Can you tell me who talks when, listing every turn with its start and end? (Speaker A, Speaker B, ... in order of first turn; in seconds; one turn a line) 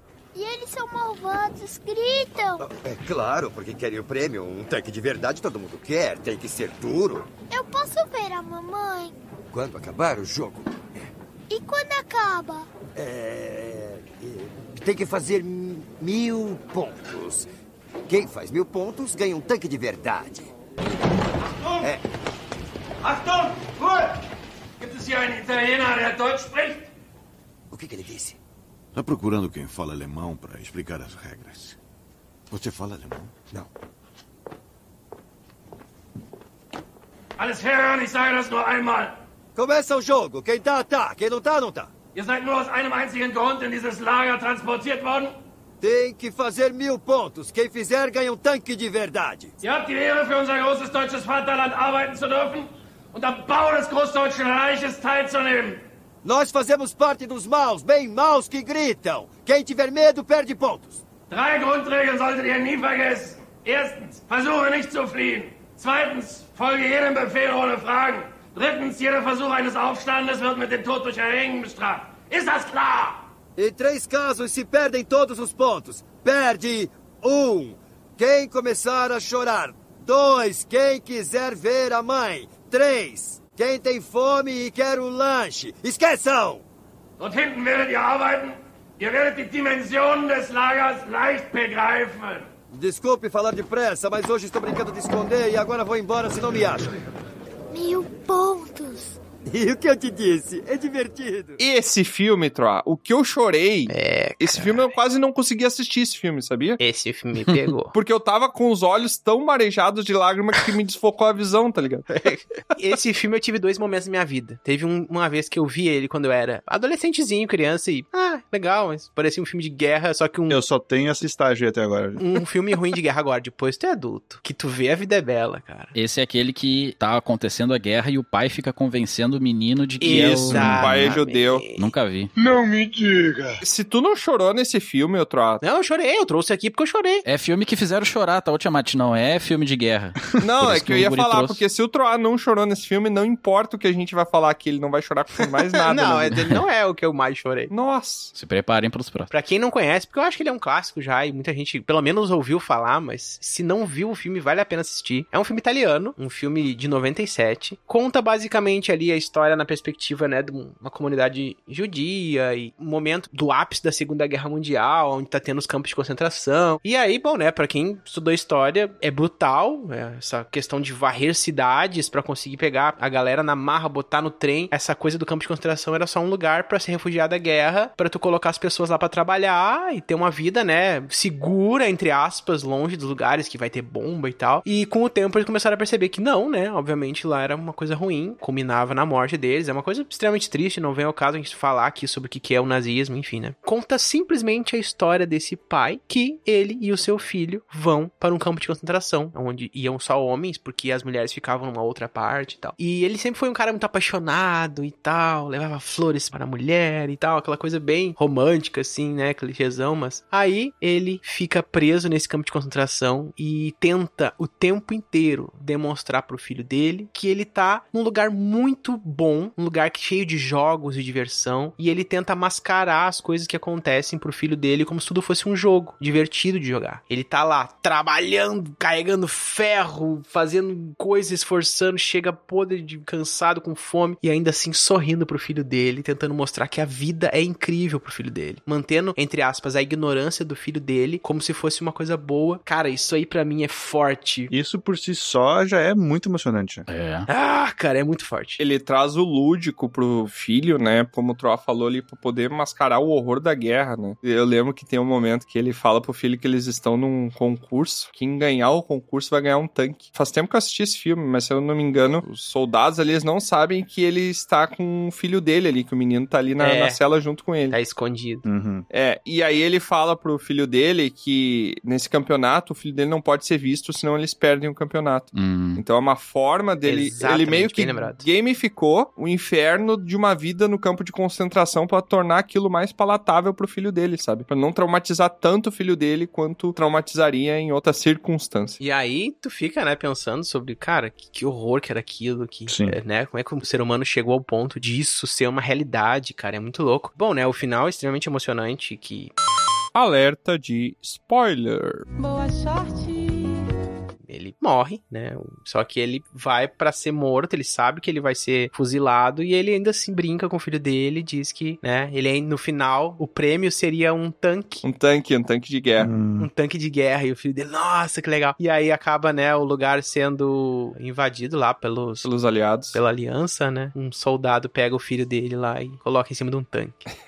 Speaker A: 0.3-2.6
Speaker B: 2.6-7.3
Speaker A: 7.5-9.1
Speaker B: 9.5-10.7
Speaker A: 11.5-12.7
Speaker B: 12.9-17.5
Speaker B: 18.1-20.5
Speaker C: 23.0-24.1
Speaker C: 24.8-26.9
Speaker B: 27.7-28.4
Speaker D: 28.9-31.8
Speaker D: 32.5-33.3
Speaker C: 37.4-39.1
Speaker B: 39.5-41.9
Speaker C: 42.1-45.3
Speaker B: 45.8-49.5
Speaker C: 49.6-55.8
Speaker B: 56.2-61.0
Speaker C: 61.3-73.2
Speaker B: 73.6-86.6
Speaker C: 87.2-92.5
Speaker B: 92.7-96.9
Speaker A: 97.7-99.2
Speaker B: 99.5-101.6
Speaker E: 101.6-106.8
Speaker F: 103.9-104.9
Speaker F: 106.8-107.9
Speaker E: 107.9-112.1
Speaker F: 112.1-120.6
Speaker G: 120.5-122.4
Speaker F: 122.2-125.9
Speaker H: 125.9-131.2
Speaker F: 130.0-131.9
Speaker E: 130.0-131.6
Speaker H: 131.7-132.3
Speaker E: 133.6-135.6
Speaker F: 135.6-137.2
Speaker H: 137.2-141.6
Speaker E: 140.4-146.3
Speaker F: 145.8-147.7
Speaker H: 146.3-146.6
Speaker E: 147.7-148.3
Speaker H: 148.3-149.3
Speaker F: 149.3-244.5
Speaker G: 244.5-246.8
Speaker H: 246.9-247.3
Speaker F: 247.3-248.6
Speaker E: 248.6-267.8
Speaker F: 266.6-267.0
Speaker F: 267.7-268.4
Speaker G: 268.4-268.8
Speaker E: 268.9-288.8
Speaker H: 275.3-275.8
Speaker F: 276.8-278.2
Speaker F: 288.8-299.3
Speaker G: 292.7-293.0
Speaker E: 299.9-302.0
Speaker F: 304.2-314.8
Speaker E: 314.8-316.1
Speaker G: 316.0-316.5
Speaker F: 316.4-322.3
Speaker E: 322.2-323.0
Speaker F: 322.9-327.0